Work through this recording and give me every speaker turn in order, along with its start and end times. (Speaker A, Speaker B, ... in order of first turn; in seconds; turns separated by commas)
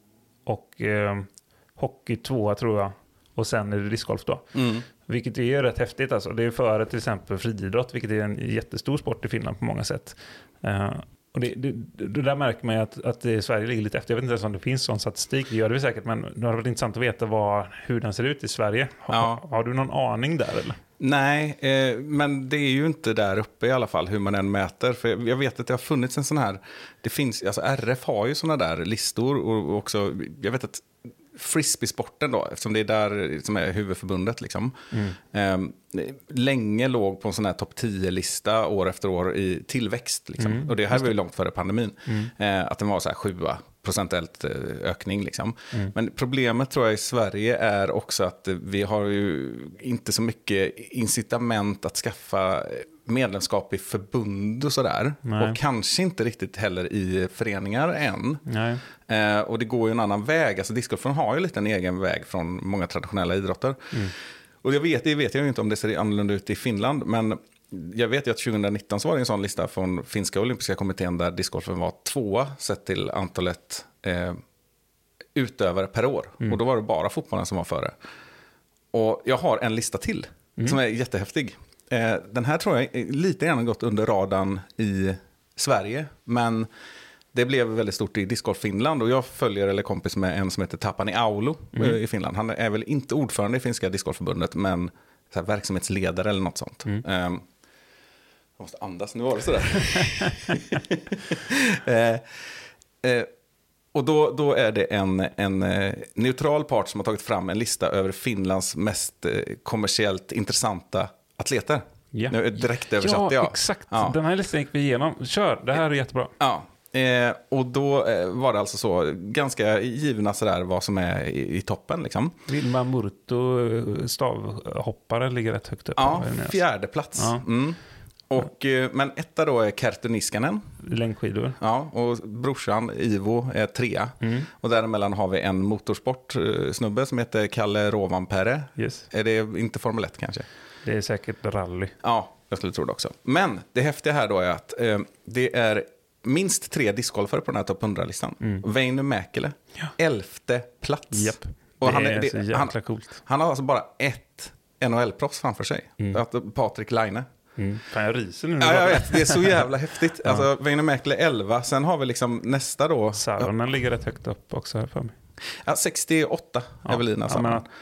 Speaker A: 0.5-20.8, Speaker B: 4.5-4.8, Speaker B: 19.1-19.4, Speaker B: 21.0-58.5, Speaker A: 34.9-35.2, Speaker A: 40.4-41.1, Speaker A: 42.1-42.3, Speaker A: 55.2-55.6, Speaker A: 58.5-58.8, Speaker B: 59.0-64.1, Speaker B: 64.6-74.4, Speaker B: 75.3-78.0, Speaker B: 78.9-86.7, Speaker B: 87.3-97.5, Speaker B: 98.6-102.5, Speaker B: 103.0-103.3, Speaker B: 103.9-114.2, Speaker A: 112.1-116.3, Speaker B: 116.4-122.3, Speaker A: 122.5-126.6, Speaker B: 126.0-127.8, Speaker A: 127.1-127.4, Speaker B: 128.3-130.6, Speaker A: 130.8-131.6, Speaker B: 131.6-140.5, Speaker A: 134.2-134.5, Speaker A: 138.8-139.1, Speaker A: 140.8-141.9, Speaker B: 142.0-157.3, Speaker A: 151.1-153.2, Speaker A: 157.6-159.7, Speaker B: 158.6-163.5, Speaker A: 163.1-165.2, Speaker B: 165.6-167.7, Speaker A: 166.9-167.7